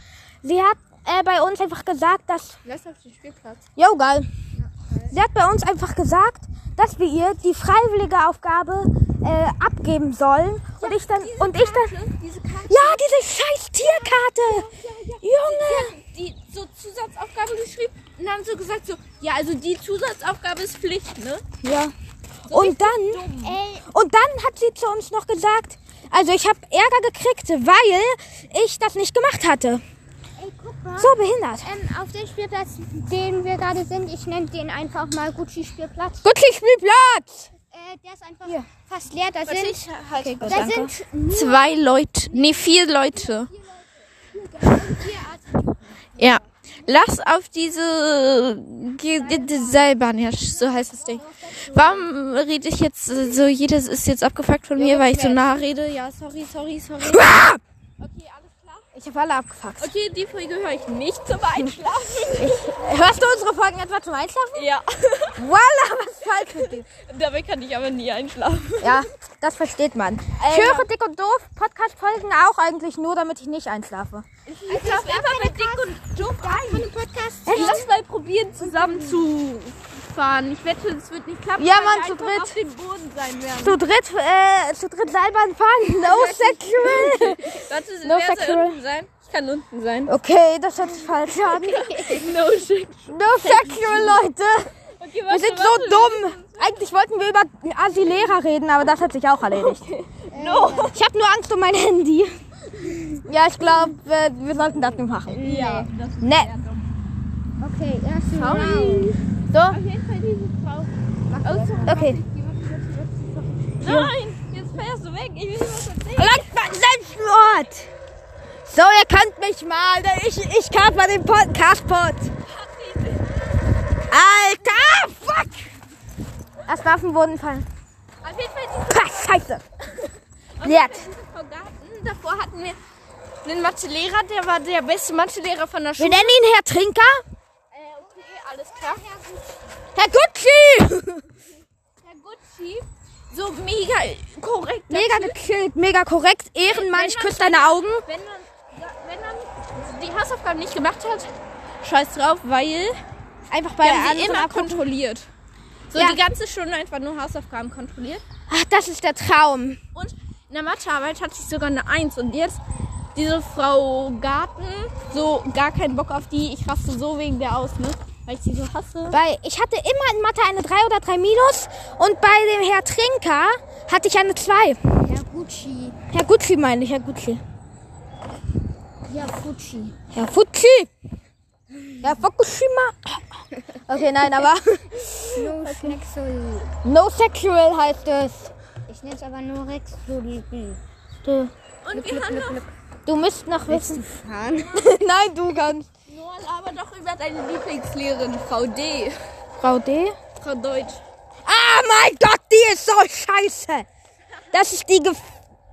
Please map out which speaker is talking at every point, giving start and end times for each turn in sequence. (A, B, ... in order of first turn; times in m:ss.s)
0:00.4-0:02.6 A
0:02.6-0:03.6 B
0:03.8-0:04.3 A
0:04.6-0:05.1 C
0:05.1-0:11.9 A
0:10.8-0:13.0 B
0:12.7-0:14.7 A
0:14.0-0:21.4 B
0:15.2-0:16.0 A
0:21.6-0:21.9 A
0:22.5-0:23.6 B
0:22.5-0:23.3 A
0:23.4-0:23.8 C
0:23.9-0:29.8 A
0:30.4-0:36.2 C
0:31.0-0:31.7 A
0:36.2-0:37.5 A
0:37.7-0:39.8 C
0:39.5-0:43.5 B
0:40.2-0:40.9 A
0:40.4-0:46.4 C
0:46.2-0:57.3 B
0:49.2-0:49.9 C
0:50.6-0:52.1 C
0:54.8-0:55.5 A
0:57.1-0:57.6 A
0:58.0-0:58.9 B
0:58.9-0:59.9 A
0:59.8-1:02.7 B
1:02.4-1:04.7 A
1:04.5-1:05.5 B
1:05.4-1:06.9 A
1:06.3-1:09.1 B
1:08.8-1:14.2 A
1:10.4-1:10.9 B
1:14.4-1:16.9 B
1:14.7-1:17.8 C
1:17.4-1:17.9 A
1:17.5-1:23.8 B
1:18.6-1:19.2 C
1:21.6-1:22.6 A
1:23.5-1:28.8 A
1:25.9-1:30.1 B
1:30.0-1:32.2 A
1:31.4-1:34.2 B
1:33.1-1:34.7 A
1:35.0-1:36.8 B
1:35.3-1:39.8 A
1:39.5-1:41.0 B
1:40.3-1:41.0 C
1:40.9-1:42.3 A
1:43.2-1:45.4 A
1:45.3-1:45.9 C
1:45.3-1:46.8 B
1:46.2-1:46.5 A
1:47.6-1:49.2 C
1:48.3-1:56.5 B
1:49.5-1:49.8 A
1:51.3-1:52.0 C
1:51.8-1:52.2 A
1:53.8-1:54.1 A
1:56.2-1:57.9 A
1:58.6-2:02.3 A
2:02.5-2:03.7 B
2:04.1-2:05.7 A
2:06.6-2:07.7 A
2:08.2-2:12.8 B
2:08.9-2:09.6 A
2:10.6-2:11.1 A
2:13.4-2:16.4 B
2:16.0-2:17.2 A
2:17.7-2:19.0 B
2:18.0-2:19.8 C
2:19.9-2:21.2 A
2:22.0-2:25.4 B
2:24.9-2:28.0 A
2:26.6-2:33.0 B
2:33.5-2:34.8 A
2:33.8-2:35.3 B
2:35.9-2:38.2 B
2:35.9-2:36.2 A
2:38.5-2:39.8 A
2:39.9-2:42.6 B
2:43.1-2:49.2 B
2:49.1-2:54.8 A
2:55.0-2:56.0 C
2:56.1-2:57.4 A
2:59.1-2:59.9 C
3:00.1-3:00.9 A
3:02.0-3:03.2 A
3:03.7-3:06.0 A
3:05.3-3:06.7 C
3:06.8-3:08.5 A
3:08.9-3:10.8 C
3:11.2-3:11.5 A
3:11.8-3:12.7 B
3:11.9-3:12.7 C
3:13.0-3:14.0 A
3:13.7-3:14.8 C
3:14.7-3:15.9 A
3:16.1-3:19.2 B
3:19.6-3:20.2 A
3:20.4-3:21.0 B
3:21.4-3:23.9 A
3:24.5-3:25.3 A